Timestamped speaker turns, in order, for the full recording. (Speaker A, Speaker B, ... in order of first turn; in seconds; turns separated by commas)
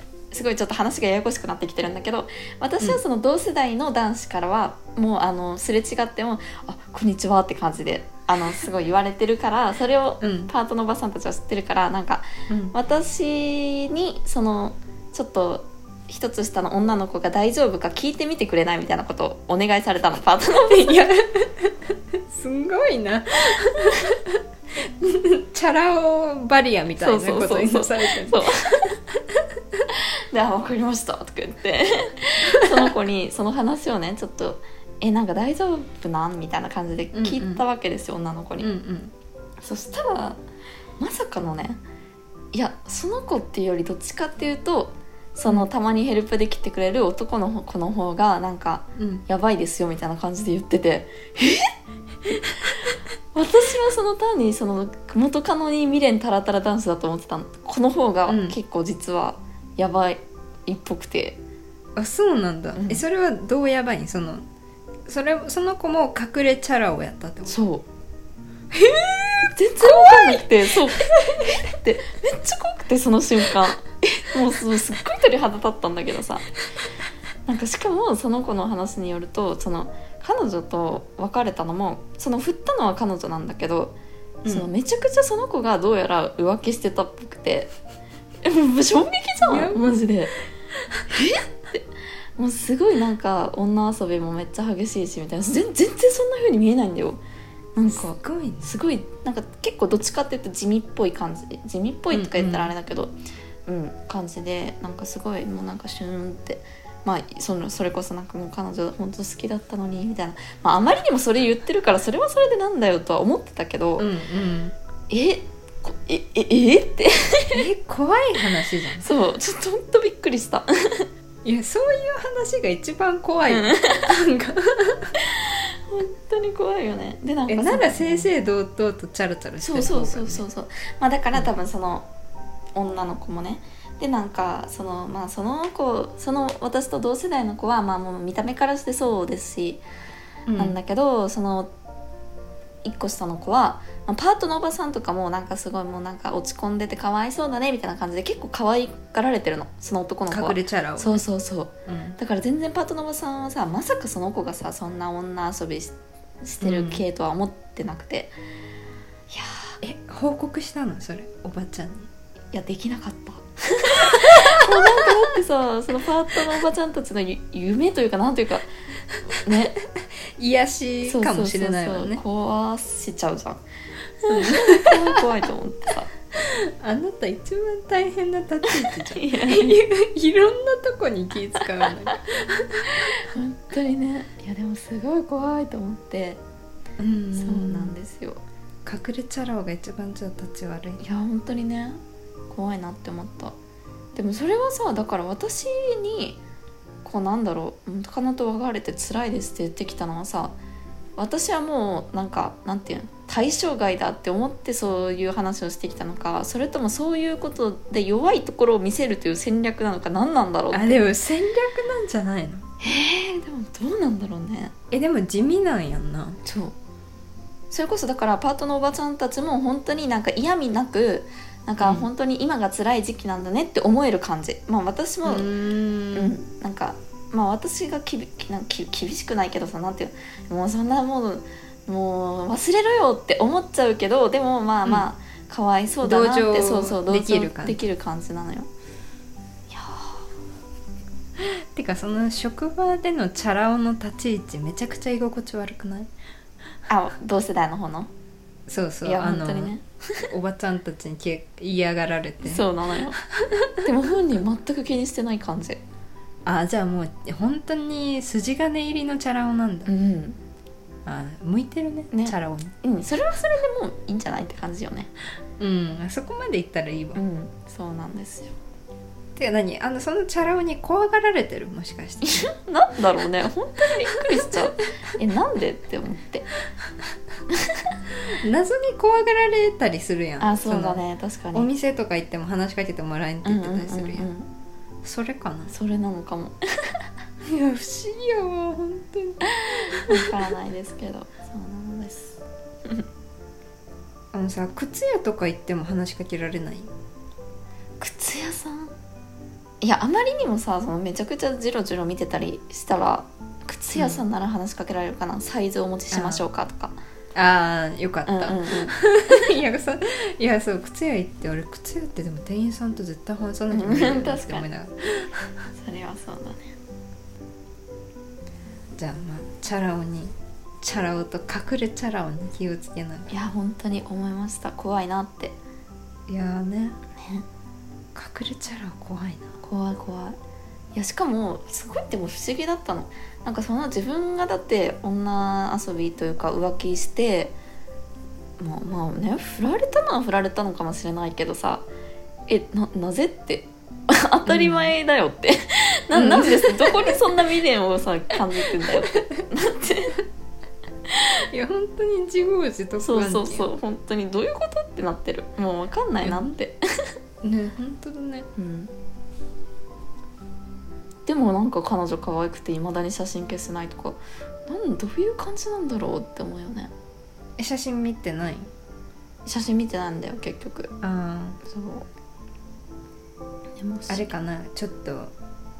Speaker A: 0.3-21.1, Speaker B: 10.2-10.5, Speaker B: 12.5-12.7, Speaker B: 20.7-28.5, Speaker A: 27.0-29.0, Speaker B: 29.1-29.8, Speaker A: 29.9-38.7, Speaker B: 32.5-32.9, Speaker B: 37.1-37.6, Speaker B: 38.6-39.1, Speaker A: 39.6-40.4, Speaker A: 41.0-41.8, Speaker A: 42.5-51.7, Speaker B: 49.0-49.2, Speaker A: 52.3-61.4, Speaker B: 58.3-58.5, Speaker B: 62.0-64.4, Speaker A: 62.7-63.0, Speaker B: 65.0-67.5, Speaker A: 67.5-67.8, Speaker B: 68.7-71.6, Speaker A: 69.4-76.5, Speaker A: 77.5-87.7, Speaker A: 88.4-90.4, Speaker B: 89.4-90.1, Speaker A: 91.1-97.2, Speaker A: 97.7-103.1, Speaker B: 97.9-98.6, Speaker B: 102.1-102.7, Speaker A: 103.7-114.1, Speaker B: 114.0-114.7, Speaker A: 115.1-117.7, Speaker B: 117.5-119.1, Speaker A: 119.0-121.1, Speaker B: 121.4-125.2, Speaker A: 123.5-124.2, Speaker A: 125.2-128.3, Speaker B: 127.5-130.4, Speaker A: 129.6-132.1, Speaker A: 132.7-139.8, Speaker B: 140.5-140.8, Speaker A: 140.6-141.7, Speaker A: 142.8-158.3, Speaker B: 150.3-151.2, Speaker B: 151.8-152.2, Speaker B: 156.6-157.0, Speaker A: 159.3-159.8, Speaker B: 159.8-162.1, Speaker A: 162.5-168.7, Speaker B: 164.0-165.2, Speaker A: 169.3-169.7, Speaker B: 169.9-172.2, Speaker A: 171.0-173.6, Speaker A: 174.2-176.1, Speaker B: 174.3-175.2, Speaker B: 176.3-183.1, Speaker A: 178.7-179.8, Speaker A: 182.9-186.4, Speaker B: 187.0-187.9, Speaker A: 187.3-188.4, Speaker B: 188.8-191.0, Speaker A: 191.0-193.5, Speaker A: 194.1-196.4, Speaker A: 197.0-200.6, Speaker A: 201.2-211.0, Speaker B: 210.7-212.6, Speaker A: 212.8-214.7, Speaker B: 214.9-216.4, Speaker A: 216.4-216.7, Speaker A: 217.7-225.5, Speaker B: 221.8-222.1, Speaker B: 225.2-226.3, Speaker A: 226.1-238.7, Speaker B: 236.0-237.8, Speaker A: 239.7-240.2, Speaker B: 241.4-246.1, Speaker A: 246.9-248.1, Speaker B: 248.7-249.8, Speaker A: 249.0-250.3, Speaker B: 250.3-252.6, Speaker A: 252.4-253.2, Speaker B: 253.2-253.9, Speaker A: 253.8-255.8, Speaker B: 256.4-259.9, Speaker A: 259.9-260.4, Speaker B: 261.1-262.7, Speaker A: 262.1-265.1, Speaker B: 265.6-267.2, Speaker A: 267.1-268.5, Speaker B: 269.4-272.5, Speaker A: 272.2-276.5, Speaker A: 277.5-277.9, Speaker B: 278.3-281.0, Speaker A: 280.4-281.7, Speaker B: 281.5-284.3, Speaker A: 283.4-284.5, Speaker B: 285.0-285.7, Speaker A: 285.7-287.1, Speaker B: 287.4-290.4, Speaker A: 289.5-293.1, Speaker B: 294.3-296.9, Speaker A: 298.0-298.9, Speaker A: 299.8-307.0, Speaker B: 303.9-304.2, Speaker B: 306.1-306.4, Speaker B: 307.3-315.5, Speaker A: 308.2-309.4, Speaker A: 313.7-314.6, Speaker A: 315.7-316.7, Speaker B: 318.9-323.3, Speaker A: 323.3-325.6, Speaker B: 326.3-327.0, Speaker A: 327.2-327.4, Speaker B: 328.1-329.5, Speaker A: 329.6-330.4, Speaker A: 330.9-337.6, Speaker A: 338.6-341.9, Speaker A: 342.5-350.2, Speaker B: 344.5-344.9, Speaker B: 346.1-347.2, Speaker B: 348.8-349.4, Speaker B: 351.5-353.7, Speaker A: 353.0-356.8, Speaker B: 356.2-356.5, Speaker B: 357.4-358.5, Speaker A: 358.6-358.9, Speaker A: 361.2-366.9, Speaker B: 367.6-368.7, Speaker A: 369.4-370.9, Speaker B: 371.0-371.6, Speaker A: 371.6-372.1, Speaker A: 373.8-374.3, Speaker B: 374.1-375.3